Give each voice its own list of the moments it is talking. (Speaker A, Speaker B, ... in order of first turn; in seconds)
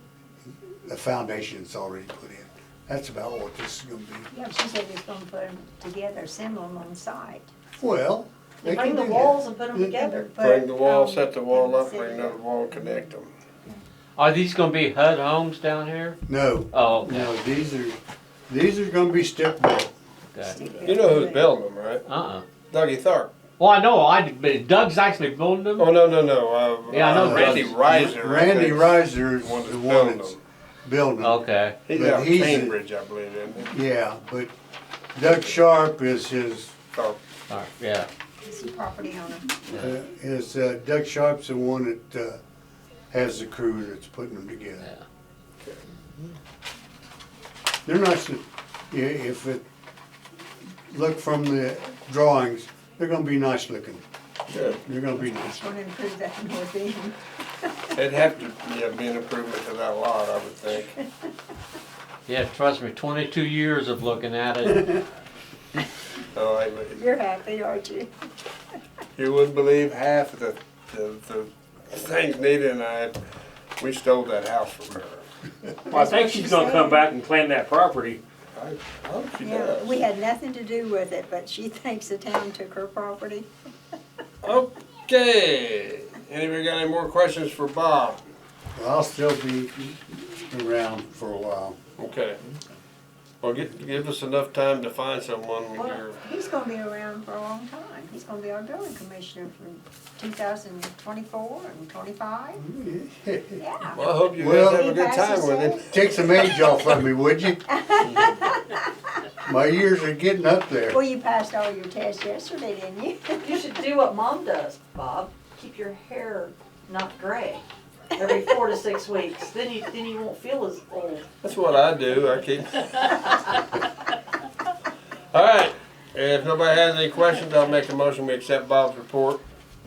Speaker A: 0.9-4.3, 7.8-9.9, 16.3-18.0, 18.5-19.9, 27.0-31.4, 31.9-32.7, 33.7-34.5, 35.1-36.7, 39.7-42.4, 43.1-44.9, 47.9-49.6, 50.9-54.0, 54.8-55.7, 88.8-91.8, 102.6-103.6, 104.3-104.9, 105.9-108.3, 109.5-111.0
Speaker B: 4.3-7.5, 9.9-13.2, 20.4-21.5, 38.4-39.6, 55.2-57.9, 66.9-68.1, 75.9-77.1, 79.4-83.5, 95.8-102.6, 103.6-106.8, 107.7-108.8, 110.9-113.7
Speaker C: 8.6-10.3, 113.4-117.6, 118.2-121.3
Speaker D: 10.4-13.3, 20.8-22.0, 22.7-23.3, 25.8-30.4, 31.9-33.7, 54.5-54.8, 58.0-61.0, 66.3-67.0, 69.2-73.2, 73.8-75.3, 78.5-80.0, 84.4-88.2, 92.0-92.4, 93.4-96.2, 103.9-106.1, 121.4-123.4, 125.3-129.4
Speaker E: 14.2-16.2, 16.7-17.3, 22.1-22.4, 23.6-25.9, 26.9-27.7, 31.2-31.8, 37.5-38.1, 39.7-39.9, 62.3-64.9
Speaker F: 75.9-78.2